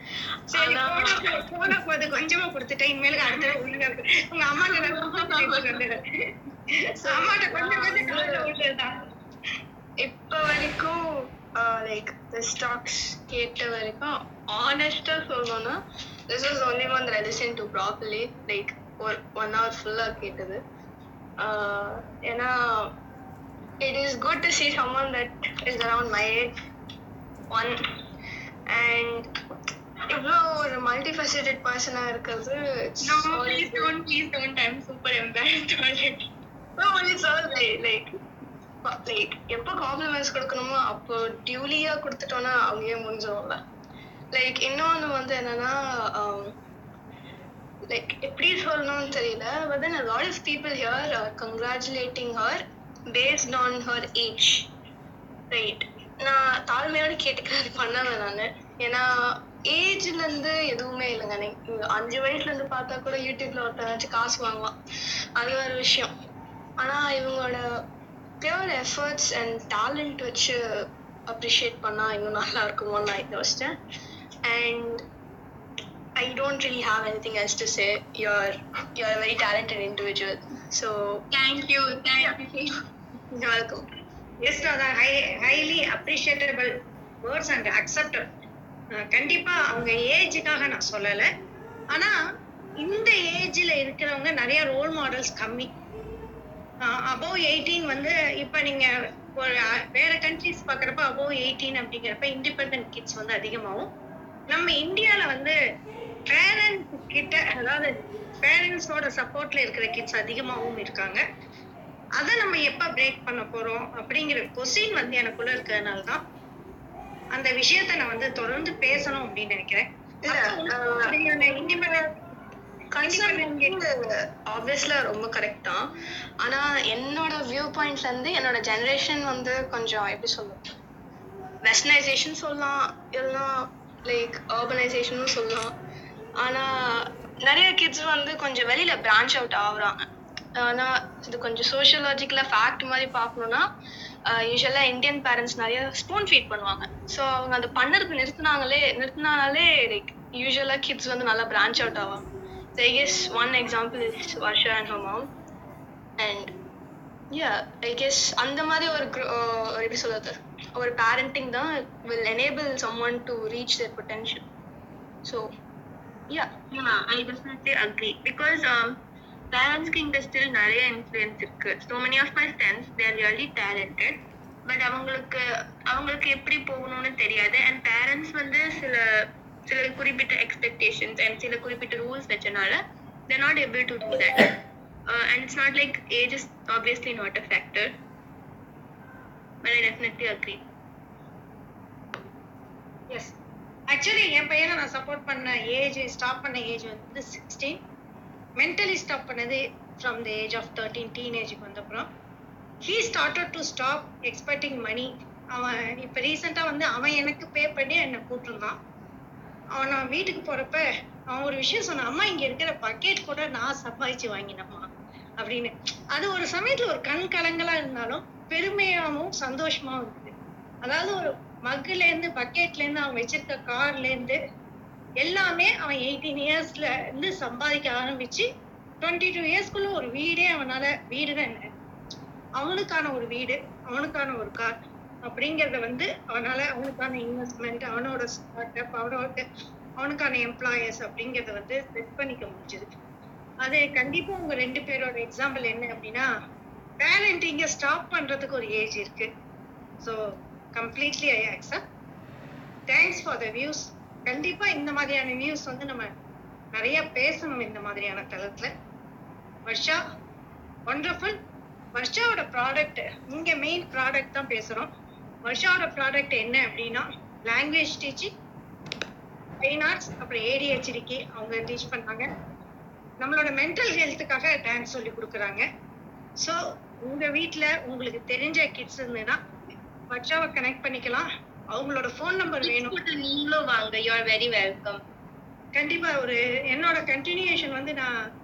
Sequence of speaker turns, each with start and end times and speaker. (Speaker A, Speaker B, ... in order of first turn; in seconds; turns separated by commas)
Speaker A: 0.5-6.0, Speaker B: 0.6-1.0, Speaker A: 7.0-9.0, Speaker B: 7.7-8.4, Speaker B: 10.0-15.8, Speaker B: 16.3-20.6, Speaker B: 21.4-22.9, Speaker B: 23.8-26.5, Speaker B: 27.5-27.8, Speaker B: 28.7-29.3, Speaker B: 30.1-33.9, Speaker C: 33.0-36.2, Speaker B: 36.8-38.1, Speaker B: 38.8-43.6, Speaker B: 44.3-46.5, Speaker B: 47.9-54.7, Speaker B: 55.5-64.7, Speaker B: 65.4-66.1, Speaker B: 66.8-67.7, Speaker B: 68.4-73.7, Speaker B: 74.5-75.0, Speaker B: 76.2-81.2, Speaker C: 81.3-82.7, Speaker B: 83.5-83.8, Speaker A: 84.4-86.7, Speaker A: 87.2-88.3, Speaker A: 89.0-91.3, Speaker A: 92.8-95.7, Speaker A: 96.8-103.9, Speaker A: 104.5-105.5, Speaker A: 106.3-111.2, Speaker A: 112.2-116.2, Speaker A: 117.3-122.1, Speaker B: 120.3-122.0, Speaker B: 122.9-125.8, Speaker A: 123.0-123.7, Speaker B: 126.4-130.6, Speaker B: 131.6-135.7, Speaker B: 136.4-143.7, Speaker B: 144.3-152.2, Speaker B: 152.8-155.3, Speaker B: 156.2-156.5, Speaker B: 157.3-164.4, Speaker C: 166.7-169.0, Speaker C: 169.5-174.2, Speaker C: 174.7-184.5, Speaker C: 185.1-187.9, Speaker C: 189.6-190.6, Speaker A: 193.9-197.8, Speaker A: 198.6-202.1, Speaker A: 202.8-208.8, Speaker A: 209.8-224.4, Speaker A: 225.2-228.5, Speaker A: 229.0-231.7, Speaker A: 232.6-234.7, Speaker A: 235.2-239.4, Speaker A: 240.0-242.9, Speaker A: 243.6-246.3, Speaker A: 247.0-249.3, Speaker A: 250.7-251.8, Speaker A: 252.9-256.1, Speaker A: 256.7-258.7, Speaker A: 259.7-260.0, Speaker A: 260.9-261.4, Speaker A: 261.9-264.9, Speaker A: 265.4-268.3, Speaker A: 269.6-272.3, Speaker A: 273.2-275.7, Speaker A: 276.4-279.4, Speaker A: 280.1-283.0, Speaker C: 282.6-285.0, Speaker A: 285.7-288.1